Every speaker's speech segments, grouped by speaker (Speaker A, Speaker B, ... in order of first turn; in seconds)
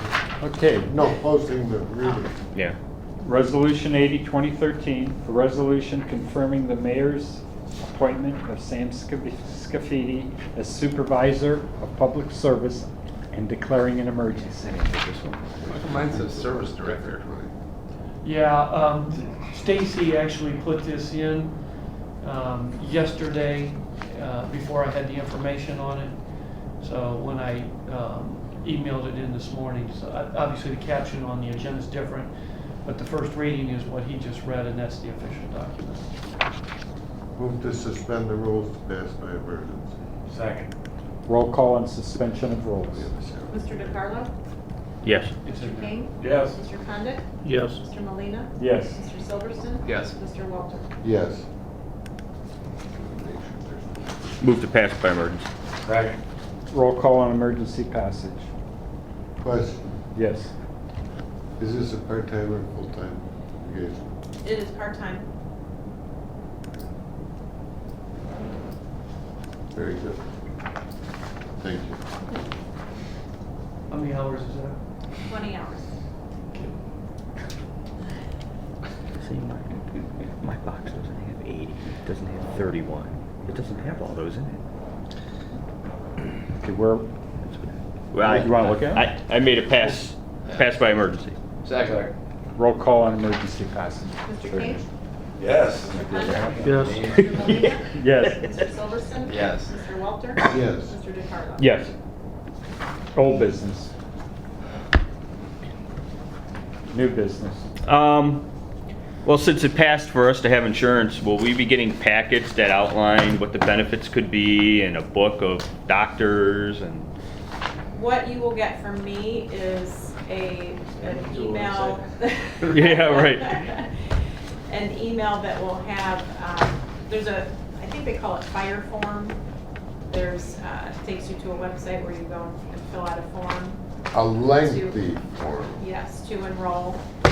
Speaker A: 0.4-0.9, 3.2-14.7, 41.3-43.0, 48.6-48.9, 56.7-58.5, 60.1-60.5, 86.6-87.0, 88.2-89.0, 92.6-94.8, 97.9-98.3, 103.1-103.9, 106.9-107.6
Speaker B: 0.8-2.3, 15.7-17.5, 37.4-40.0, 42.9-43.8, 51.0-51.4, 52.9-54.4, 59.4-59.8, 61.6-64.2, 69.7-70.2, 71.6-72.0, 100.5-100.9, 134.1-135.8
Speaker C: 14.3-15.8, 45.0-45.3, 54.4-55.5, 79.2-79.8, 80.4-84.6, 87.4-91.4, 97.2-98.6, 101.6-101.9, 107.8-108.5, 109.2-117.1, 122.7-123.6
Speaker D: 15.7-17.2, 49.8-50.1, 90.5-90.8, 91.6-92.1, 96.8-97.3, 99.2-99.7, 121.0-122.0
Speaker E: 18.2-32.3, 32.8-36.0, 45.4-46.0, 73.9-74.8
Speaker F: 40.3-40.7, 46.2-46.6, 55.8-56.1, 95.4-97.2
Speaker G: 43.5-44.3, 45.4-50.8, 64.4-65.3, 75.2-75.9, 94.2-94.8, 95.7-101.7, 117.9-124.0, 124.7-129.4, 130.1-133.8, 134.6-135.0, 135.8-137.0